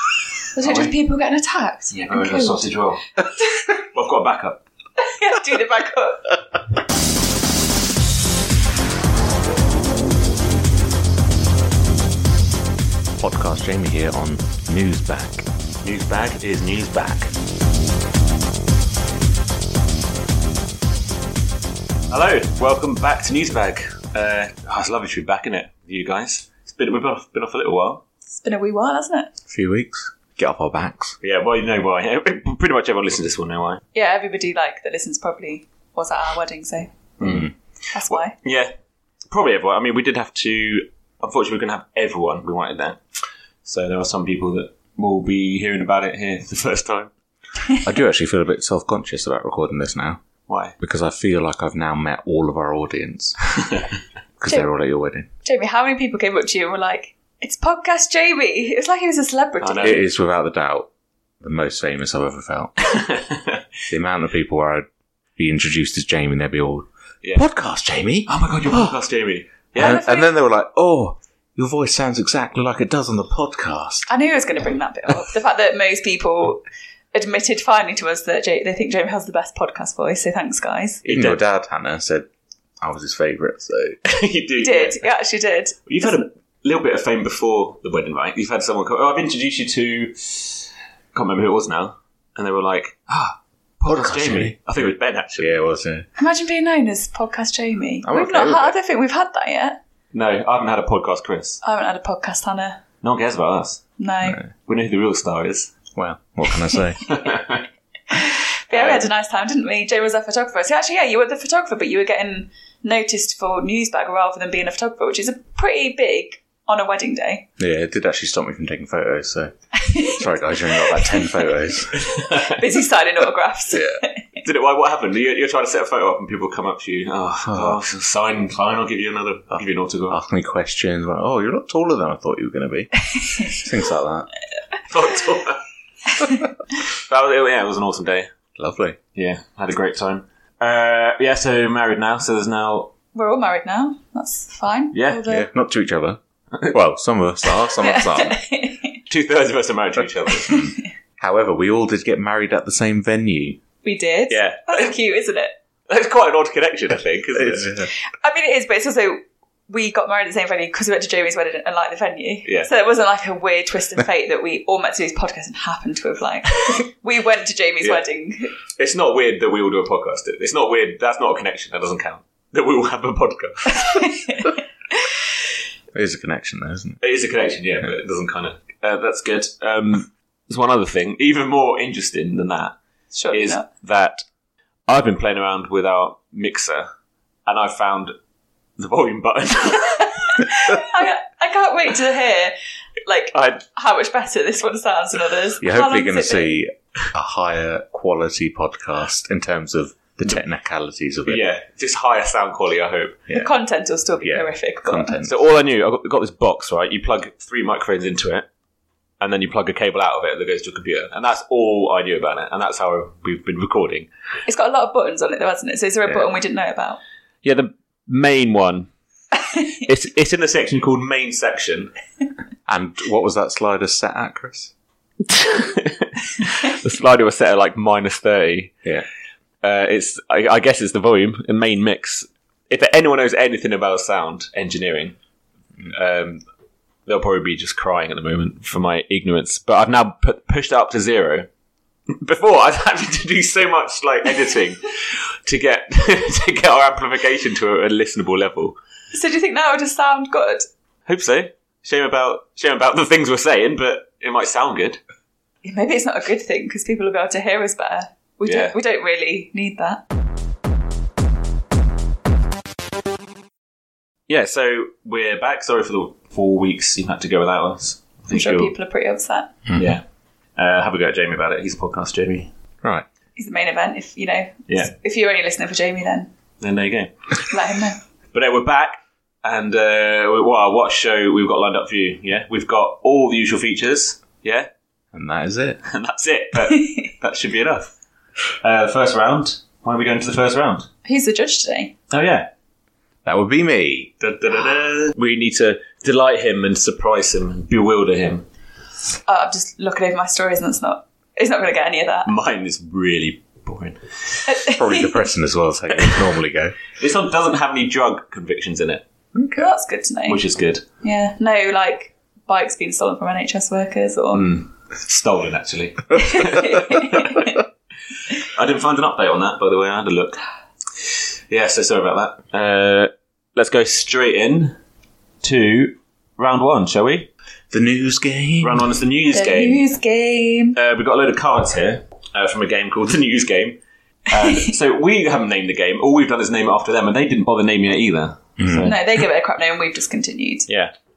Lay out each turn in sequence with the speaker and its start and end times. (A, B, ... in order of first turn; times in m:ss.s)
0:00.5-0:02.7 A
0:00.6-0:00.9 B
0:01.9-0:03.0 B
0:03.4-0:03.7 A
0:03.9-0:04.6 B
0:05.0-0:06.4 A
0:13.2-0:15.4 C
0:15.8-0:17.3 B
0:22.1-0:28.0 B
0:28.3-0:29.3 A
0:29.5-0:31.2 C
0:31.2-0:33.8 B
0:33.9-0:36.9 A
0:37.2-0:37.5 B
0:37.9-0:38.3 A
0:38.1-0:38.7 B
0:39.3-0:43.0 B
0:43.6-0:47.1 B
0:47.8-0:50.2 C
0:50.5-0:50.8 B
0:50.8-0:53.4 C
0:54.4-0:55.3 C
0:55.4-1:00.0 A
0:59.6-1:00.0 B
0:59.8-1:00.9 C
1:01.4-1:03.0 C
1:02.8-1:03.6 B
1:03.9-1:08.9 C
1:08.3-1:10.0 B
1:09.8-1:10.3 A
1:09.8-1:14.1 C
1:14.1-1:16.6 A
1:17.1-1:21.0 A
1:21.0-1:21.4 B
1:21.0-1:22.3 C
1:22.8-1:24.0 C
1:24.0-1:25.1 B
1:24.6-1:26.2 A
1:25.8-1:35.6 B
1:33.8-1:34.6 C
1:35.4-1:36.1 C
1:36.2-1:39.8 A
1:38.0-1:38.7 C
1:40.1-1:41.6 B
1:41.6-1:42.8 A
1:43.0-1:43.8 B
1:44.0-1:44.4 A
1:44.6-1:45.7 B
1:45.9-1:47.2 C
1:47.0-1:47.6 B
1:48.1-1:57.4 A
1:48.7-1:49.1 B
1:57.6-2:02.1 C
1:59.7-2:04.4 A
2:01.9-2:02.8 B
2:03.7-2:04.0 C
2:04.4-2:10.2 B
2:07.4-2:07.8 C
2:10.1-2:14.3 C
2:13.2-2:13.6 A
2:14.9-2:15.6 B
2:16.9-2:18.3 B
2:18.6-2:19.0 C
2:19.1-2:22.9 B
2:23.1-2:25.5 A
2:24.9-2:25.2 B
2:25.2-2:28.4 C
2:27.8-2:29.0 A
2:29.1-2:30.6 B
2:30.4-2:33.6 C
2:30.4-2:30.8 A
2:33.8-2:35.5 A
2:34.3-2:34.9 B
2:35.9-2:37.8 B
2:37.4-2:37.9 C
2:38.0-2:48.5 A
2:42.4-2:42.7 B
2:48.8-2:54.2 B
2:53.7-2:54.6 A
2:55.9-2:57.0 C
2:57.0-3:02.7 B
3:03.1-3:03.7 A
3:03.3-3:04.2 B
3:04.9-3:06.9 B
3:07.4-3:08.1 B
3:08.8-3:10.4 B
3:10.0-3:16.6 A
3:13.3-3:13.6 B
3:15.6-3:21.4 C
3:21.2-3:23.2 B
3:23.3-3:25.2 A
3:24.2-3:25.3 C
3:25.2-3:28.5 B
3:29.2-3:34.1 B
3:34.4-3:37.0 A
3:37.4-3:38.9 B
3:39.5-3:39.8 A
3:39.8-3:41.9 B
3:42.7-3:44.7 C
3:45.2-3:48.8 B
3:49.6-3:55.2 B
3:55.9-3:56.4 B
3:57.0-4:01.5 B
4:02.1-4:08.8 B
4:09.1-4:10.6 A
4:11.0-4:15.0 B
4:15.6-4:20.0 A
4:18.4-4:18.7 B
4:24.3-4:28.7 B
4:28.3-4:29.5 A
4:29.7-4:29.9 C
4:29.7-4:30.0 B
4:30.6-4:32.5 B
4:33.4-4:36.3 A
4:36.6-4:37.1 B
4:37.5-4:38.0 A
4:38.3-4:44.7 B
4:45.1-4:45.8 C
4:45.8-4:47.9 B
4:48.6-4:50.9 B
4:51.0-4:51.9 A
4:52.1-4:52.5 B
4:53.2-4:54.1 C
4:54.2-4:58.5 B
4:59.3-5:02.3 A
5:02.2-5:04.5 B
5:04.4-5:05.3 A
5:04.8-5:06.8 C
5:06.0-5:06.2 B
5:07.0-5:09.0 B
5:09.3-5:09.7 C
5:09.6-5:10.4 A
5:10.3-5:10.8 B
5:11.0-5:14.5 A
5:14.3-5:17.5 B
5:16.1-5:17.6 A
5:18.3-5:20.4 B
5:21.0-5:24.8 B
5:25.4-5:27.3 B
5:27.7-5:28.9 C
5:28.6-5:29.8 B
5:29.3-5:30.8 A
5:30.7-5:39.0 B
5:38.6-5:38.9 C
5:38.8-5:40.7 A
5:40.7-5:40.9 B